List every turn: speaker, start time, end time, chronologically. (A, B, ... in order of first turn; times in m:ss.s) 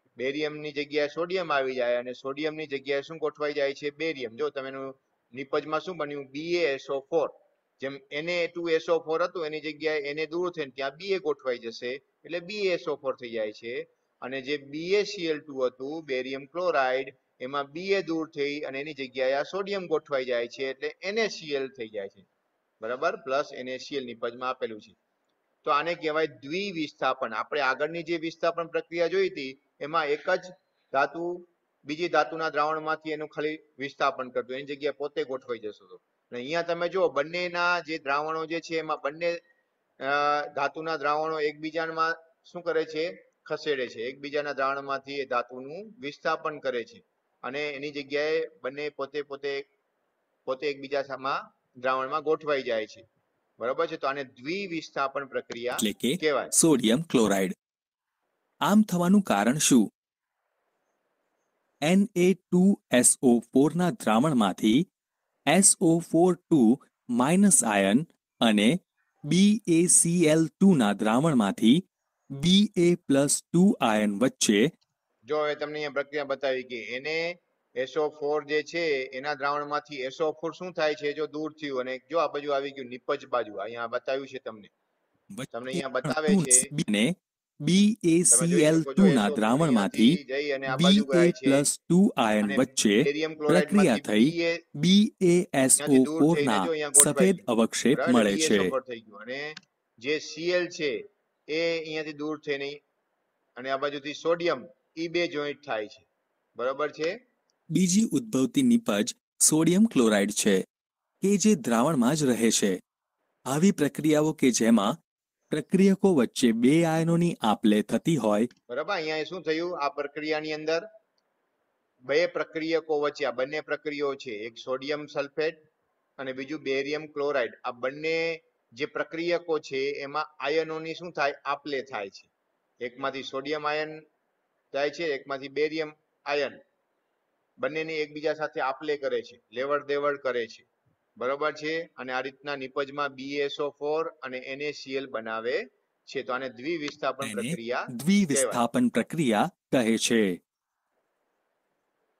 0:00.2-0:22.2 A
0:22.8-0:25.0 A
0:25.6-0:39.4 A
0:40.0-0:49.7 A
0:50.4-0:53.0 A
0:53.6-0:56.5 A
0:55.8-0:57.5 B
0:58.6-0:59.8 B
1:01.8-1:04.8 B
1:05.5-1:08.7 B
1:09.3-1:11.8 B
1:12.3-1:14.7 B
1:15.3-1:24.7 A
1:25.3-1:38.7 B
1:25.5-1:26.7 A
1:28.3-1:31.6 A
1:32.4-1:34.6 A
1:35.8-1:42.8 A
1:43.6-1:46.1 A
1:46.6-1:47.1 A
1:47.7-1:50.6 B
1:51.2-1:52.8 B
1:53.5-1:54.9 B
1:55.5-1:58.5 B
1:58.7-2:00.8 A
2:02.1-2:05.6 A
2:06.2-2:12.3 A
2:12.8-2:14.0 A
2:14.7-2:16.6 A
2:17.6-2:20.6 A
2:21.2-2:28.6 A
2:27.2-2:30.4 B